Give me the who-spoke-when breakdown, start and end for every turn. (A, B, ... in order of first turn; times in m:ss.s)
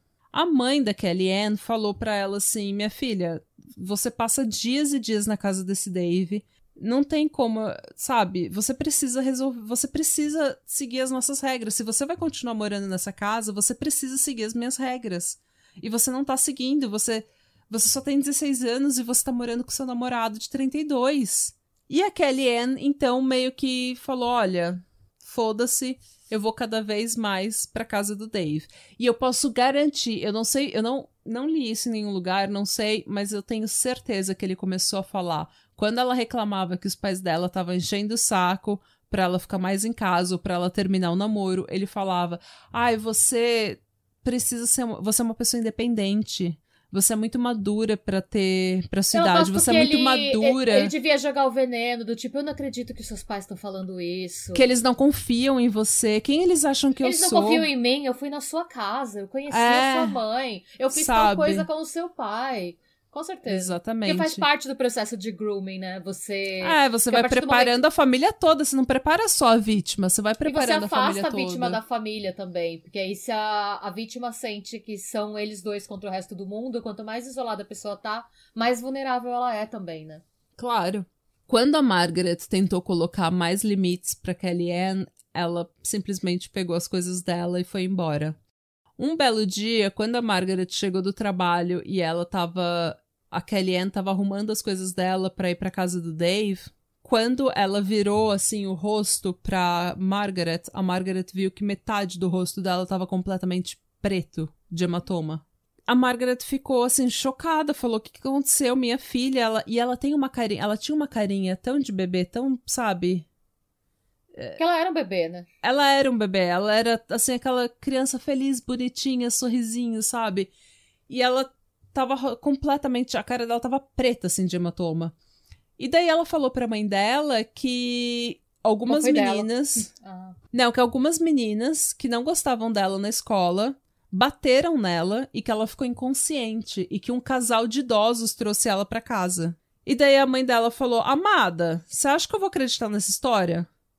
0:00.3-0:50.9 A
0:49.1-0:54.7 B
0:54.5-0:57.7 A
0:57.0-1:07.8 B
0:59.5-1:00.2 A
1:00.9-1:01.7 A
1:03.5-1:04.4 A
1:06.6-1:11.8 A
1:10.4-1:20.2 B
1:20.6-1:28.4 A
1:29.0-1:53.2 A
1:54.6-1:55.5 B
1:55.6-2:00.5 A
2:01.1-2:05.1 A
2:05.8-2:09.9 A
2:08.9-2:10.3 B
2:10.5-2:23.7 A